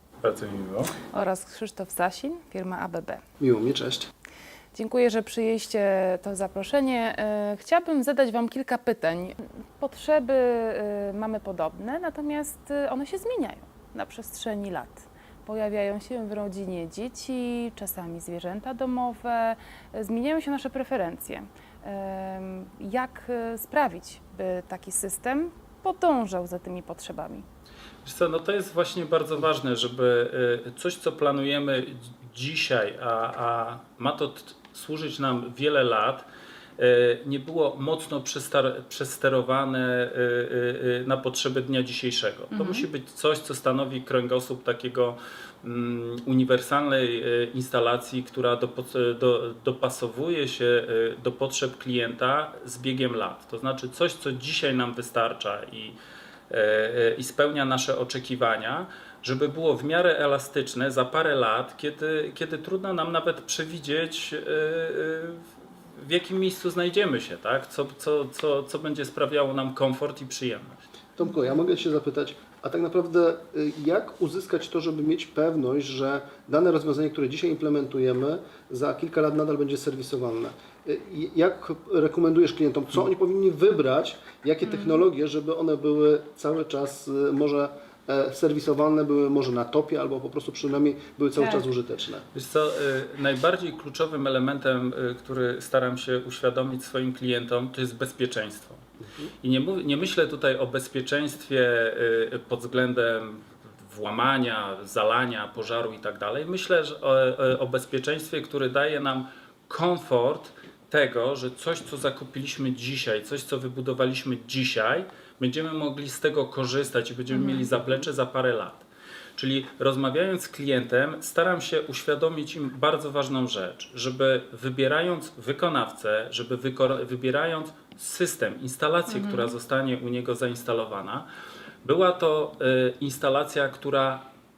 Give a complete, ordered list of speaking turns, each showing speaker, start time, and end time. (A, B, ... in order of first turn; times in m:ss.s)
0:00.2-0:01.0 A
0:01.0-0:03.2 B
0:03.4-0:04.1 C
0:04.7-0:27.4 B
0:28.0-0:36.3 A
0:36.8-0:56.0 A
0:42.5-0:42.8 B
0:56.5-1:10.8 A
1:11.2-1:32.2 C
1:24.7-1:25.0 B
1:32.3-1:38.8 A
1:39.4-2:11.3 A
1:57.4-1:57.6 B
2:11.8-2:14.2 A